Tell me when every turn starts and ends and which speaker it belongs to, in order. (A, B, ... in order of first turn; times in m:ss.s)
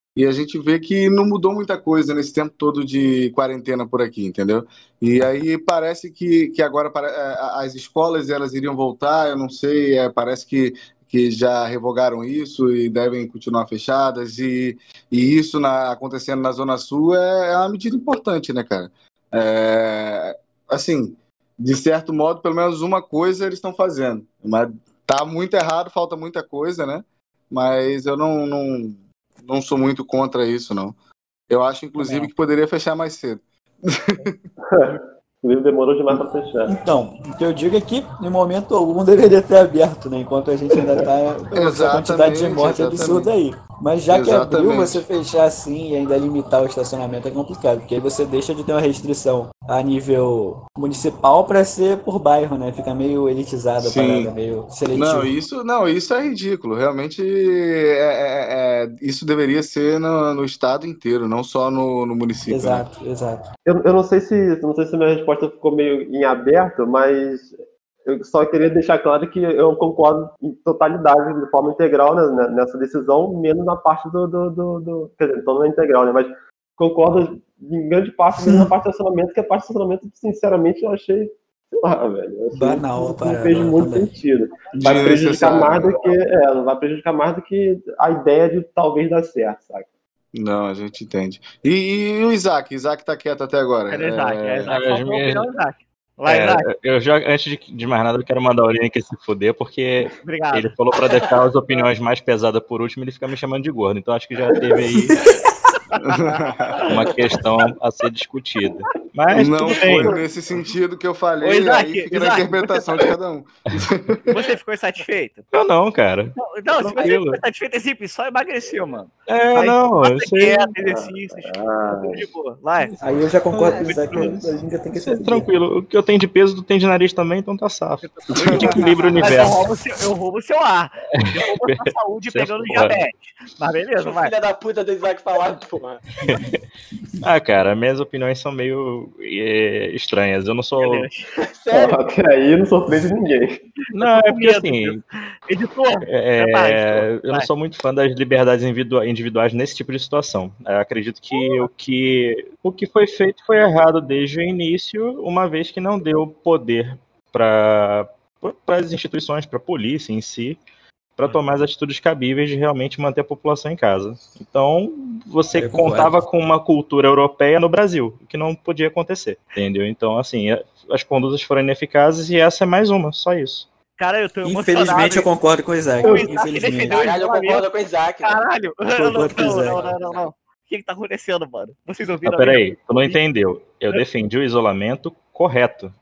0:00.2-0:31.0 A
0:31.5-0:34.4 A
0:32.0-0:32.3 B
0:34.6-0:36.7 C
0:36.7-0:55.3 D
0:41.5-0:43.3 A
0:44.1-0:45.0 A
0:53.8-0:54.3 A
0:54.9-1:02.9 A
1:02.5-1:03.4 D
1:03.6-1:07.5 C
1:08.1-1:29.9 C
1:22.5-1:24.1 D
1:24.7-1:26.0 A
1:30.3-1:34.7 A
1:33.9-1:36.7 B
1:34.7-1:35.5 E
1:36.3-1:45.2 E
1:40.2-1:40.7 B
1:46.0-1:46.8 A
1:46.8-1:50.2 E
1:49.3-1:54.4 A
1:51.4-1:52.8 B
1:54.3-1:55.5 B
1:55.5-1:57.4 E
1:56.4-2:03.0 B
1:59.3-2:00.7 E
2:00.8-2:02.3 C
2:03.0-2:05.5 D
2:03.6-2:04.0 F
2:03.8-2:04.4 B
2:05.0-2:09.7 E
2:08.0-2:14.3 B
2:08.3-2:08.8 A
2:11.1-2:13.0 E
2:14.0-2:16.0 F
2:16.2-2:16.6 E
2:17.2-2:21.1 E
2:20.8-2:21.3 B
2:21.4-2:22.0 F
2:21.7-2:23.6 C
2:23.9-2:25.0 E
2:24.0-2:27.5 B
2:26.0-2:40.6 E
2:41.2-2:53.7 E
2:45.5-2:46.2 D
2:54.0-2:55.3 B
2:54.4-2:57.0 D
2:56.0-2:57.7 B
2:56.0-2:56.3 C
2:56.9-2:58.4 F
2:58.2-3:03.2 B
2:58.9-2:59.8 D
2:59.9-3:00.2 F
3:02.2-3:05.9 E